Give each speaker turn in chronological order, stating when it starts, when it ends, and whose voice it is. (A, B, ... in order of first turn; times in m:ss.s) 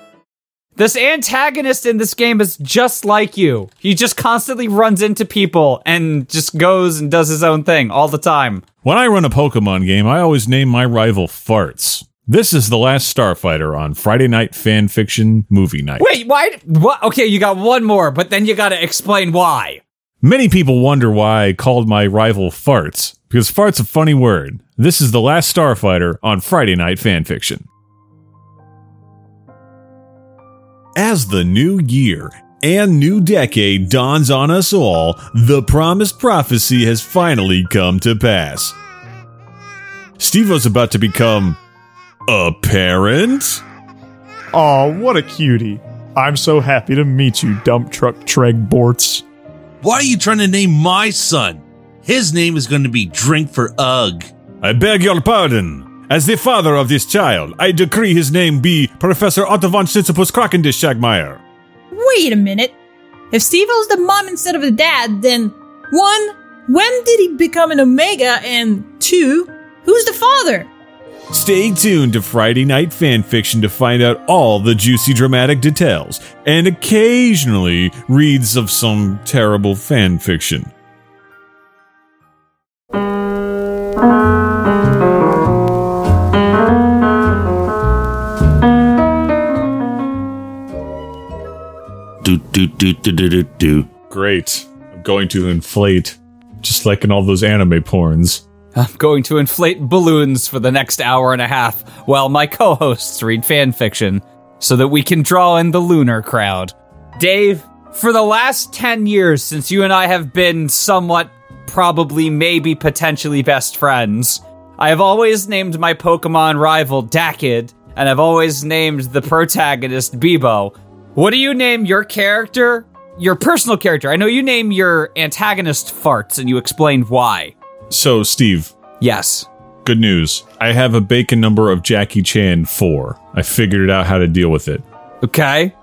0:00.8-0:08.6 A
0:08.8-0:16.1 B
0:16.0-0:19.8 A
0:20.2-0:27.7 B
0:31.0-0:38.8 B
0:40.2-0:41.6 B
0:42.3-0:43.6 B
0:44.5-0:49.2 C
0:49.8-0:54.3 D
0:54.6-1:01.4 B
1:01.9-1:02.8 E
1:03.3-1:10.7 E
1:11.3-1:20.7 B
1:32.2-1:33.9 D
1:34.1-1:38.4 B
1:38.7-2:07.5 A
2:07.9-2:08.7 B
2:09.0-2:09.5 A
2:09.8-2:14.8 B
2:15.2-2:15.7 A